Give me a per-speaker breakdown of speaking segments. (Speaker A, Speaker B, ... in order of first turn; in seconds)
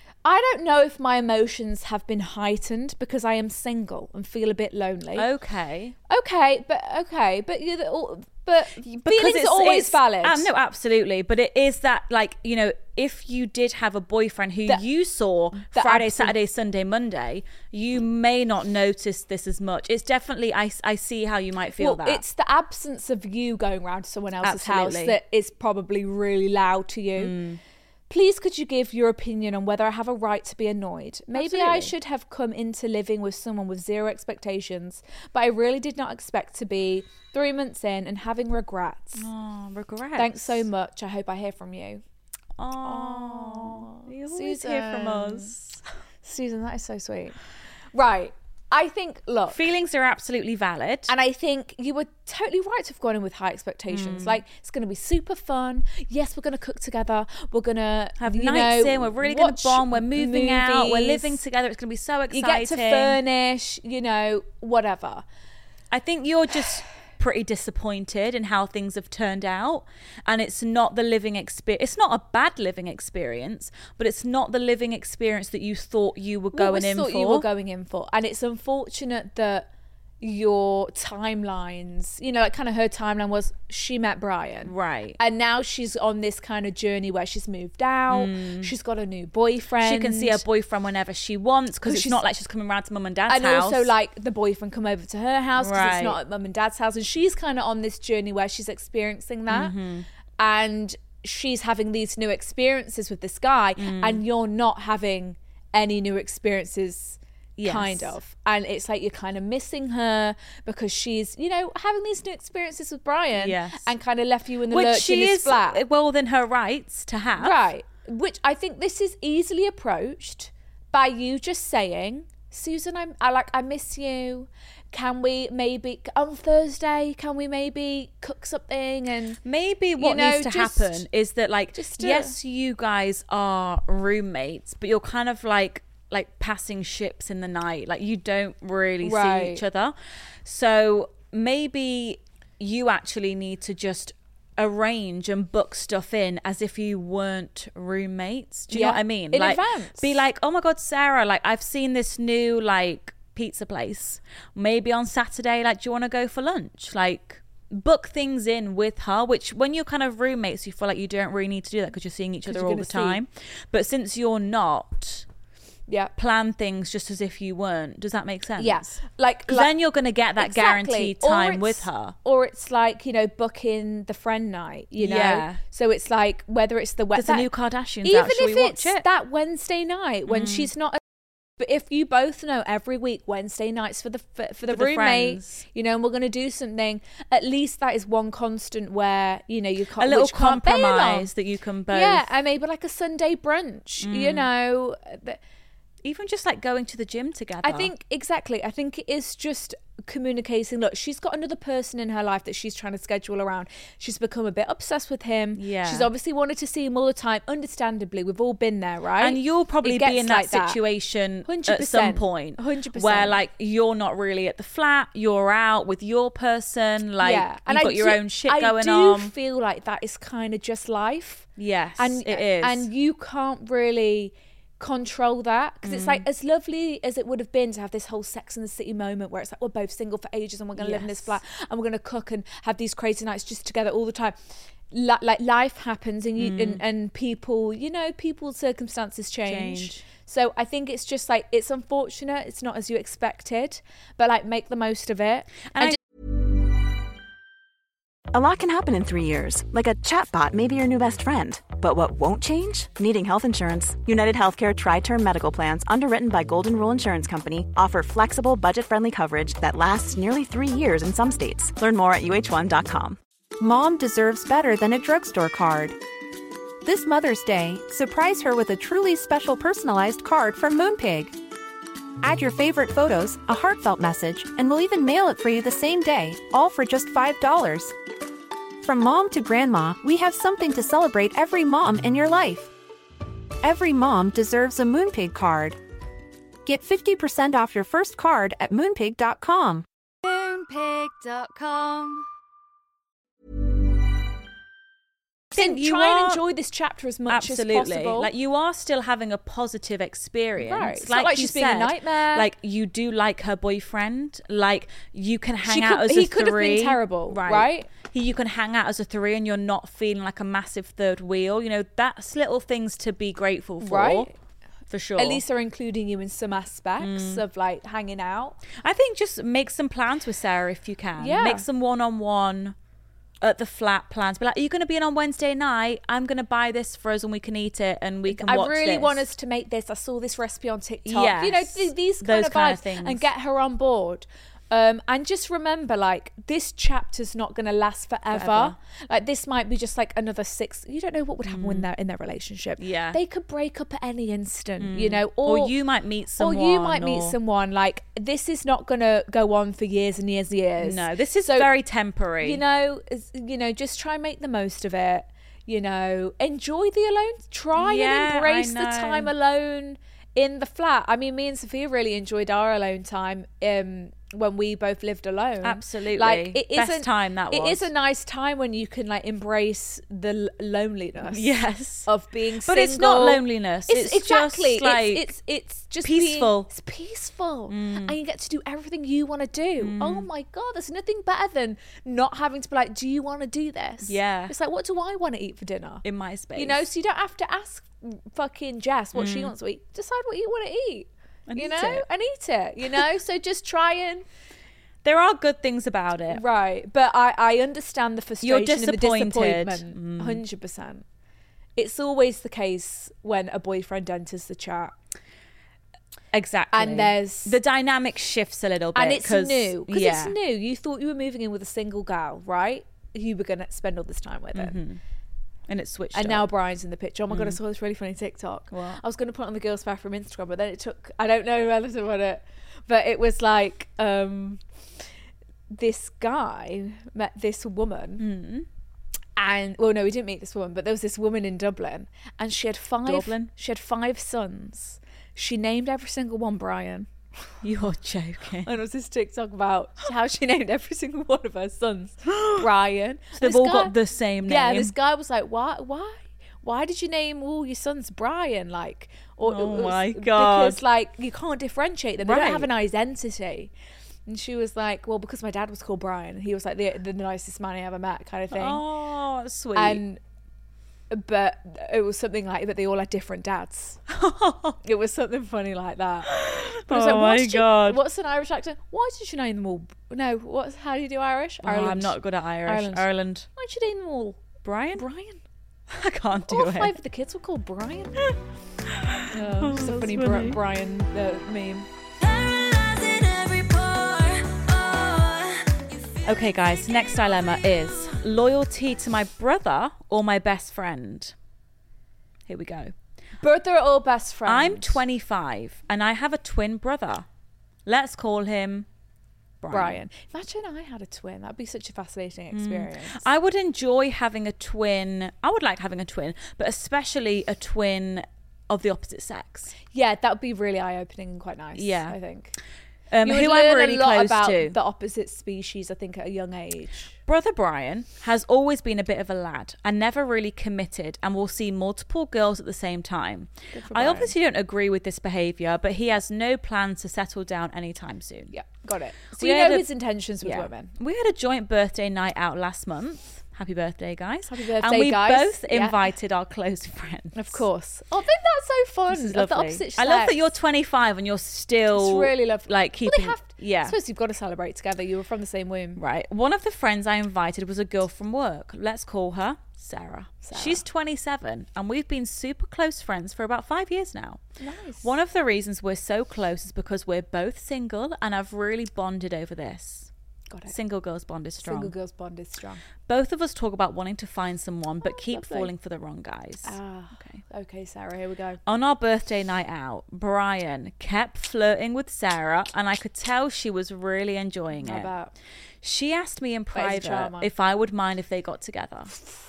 Speaker A: 0.2-5.3, 6.1-10.5, 15.6-16.4, 21.8-27.4, 28.1-39.3, 40.2-42.0, 42.8-45.6, 46.2-47.4, 47.9-49.6, 51.1-61.4, 62.3-65.2, 76.5-79.7, 80.2-90.4, 91.8-92.2, 93.3-99.8, 100.4-115.8, 117.4-129.4, 130.0-131.1, 131.8-132.4, 139.0-139.6, 148.7-150.2, 162.5-163.2, 165.9-166.1, 168.6-169.7, 170.4-177.5, 178.0-181.0, 181.6-191.3, 191.9-195.4, 197.6-210.8, 211.4-213.4, 217.2-234.4, 234.9-246.0, 295.5-298.3, 300.6-302.5, 305.6-307.9, 313.8-314.4, 315.2-318.6, 321.2-321.6, 328.3-345.7, 346.4-351.7, 352.4-371.5, 372.1-386.0, 386.6-394.2, 396.3-401.1, 401.8-404.9, 406.7-407.6, 408.9-414.8, 416.1-424.6, 425.7-428.2, 429.4-437.1, 438.6-453.7, 454.3-458.8, 459.8-460.2, 461.1-464.0, 464.8-474.4, 475.0-475.4, 476.5-478.3, 479.3-481.9, 493.4-495.0, 499.7-503.3, 509.9-512.5, 513.2-517.1, 523.7-524.3, 528.5-530.9, 534.5-536.0, 537.4-540.5, 541.9-546.0, 550.4-550.8, 554.6-555.1, 561.6-562.8, 565.0-565.7, 566.6-568.6, 574.8-575.3, 576.7-577.5
Speaker B: 5.2-6.0, 8.8-22.2, 24.4-25.2, 27.2-27.6, 31.3-31.9, 39.1-40.6, 42.6-45.8, 49.5-51.1, 53.9-54.4, 58.2-63.2, 65.9-77.5, 84.7-85.2, 88.1-88.7, 89.8-93.9, 95.6-96.2, 99.5-100.1, 103.8-104.2, 107.6-108.2, 113.3-113.9, 114.7-117.6, 129.4-165.3, 166.2-169.0, 169.5-172.2, 175.0-175.6, 177.2-179.1, 180.3-180.7, 184.7-185.6, 190.0-192.3, 194.0-194.5, 196.0-197.9, 205.6-206.1, 209.2-219.3, 221.6-222.9, 225.8-226.2, 230.8-231.4, 236.4-236.8, 239.5-240.1, 295.5-296.4, 297.3-314.3, 314.9-315.4, 317.0-317.4, 318.7-322.8, 323.4-329.2, 331.1-333.2, 338.3-338.8, 341.5-341.9, 342.8-343.2, 344.8-347.4, 350.8-352.6, 357.8-359.3, 365.6-367.9, 371.2-372.1, 372.6-375.3, 376.0-376.7, 377.7-378.1, 379.8-380.3, 384.0-384.5, 386.0-386.8, 389.1-389.5, 391.5-392.1, 395.0-396.4, 398.4-400.4, 406.3-410.4, 414.5-415.0, 415.7-416.5, 417.3-417.6, 418.7-419.0, 428.2-428.7, 433.1-433.5, 437.6-438.7, 442.3-442.7, 443.4-444.9, 449.4-450.8, 452.2-452.7, 458.5-460.0, 464.1-464.8, 466.3-468.0, 471.6-473.5, 474.6-475.0, 475.9-476.9, 478.9-480.6, 486.2-491.4, 492.5-492.9, 494.5-497.3, 497.9-498.9, 499.6-500.0, 502.5-509.7, 511.8-512.2, 513.1-514.8, 517.3-528.5, 529.3-529.9, 530.4-537.6, 539.1-544.0, 546.0-554.4, 555.0-560.1, 560.7-561.9, 563.1-567.4, 568.7-575.1, 575.8-579.1
Speaker C: 248.3-263.2
Speaker D: 263.6-266.0, 266.8-271.4, 272.2-277.9, 278.8-282.7, 283.6-285.8, 286.6-289.9
Speaker E: 290.2-292.3, 482.2-486.0